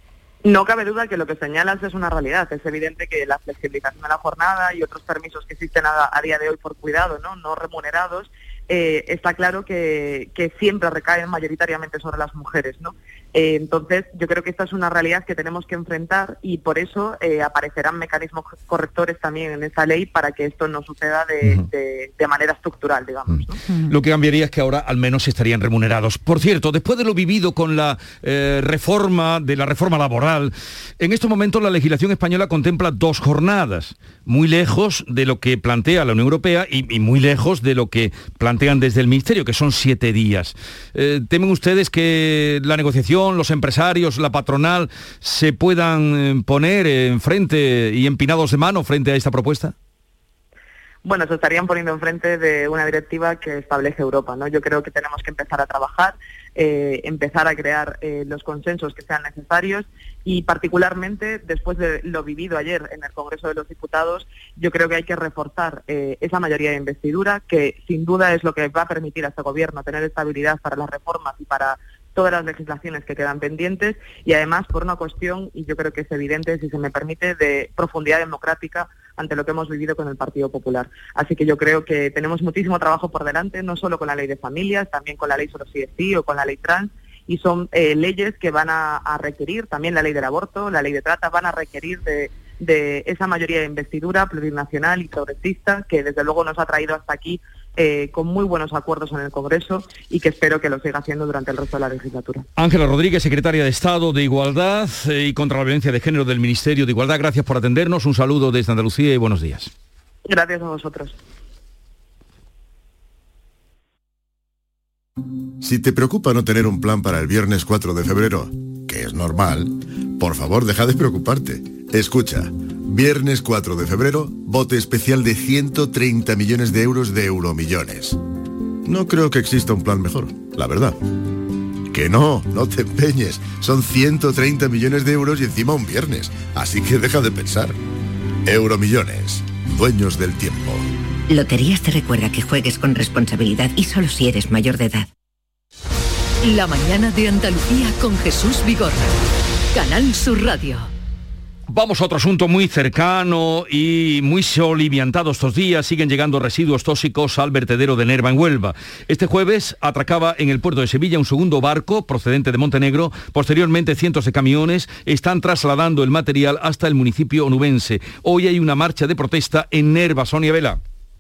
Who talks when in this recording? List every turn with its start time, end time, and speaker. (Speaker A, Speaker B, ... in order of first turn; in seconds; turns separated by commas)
Speaker A: 0.5-23.6, Speaker B: 23.3-49.7, Speaker A: 51.0-102.5, Speaker B: 102.6-109.7, Speaker A: 110.3-111.2, Speaker C: 115.6-128.2, Speaker C: 128.8-131.0, Speaker C: 131.9-137.8, Speaker C: 138.5-140.8, Speaker D: 141.3-145.1, Speaker E: 146.4-149.2, Speaker E: 149.7-150.9, Speaker B: 151.7-170.8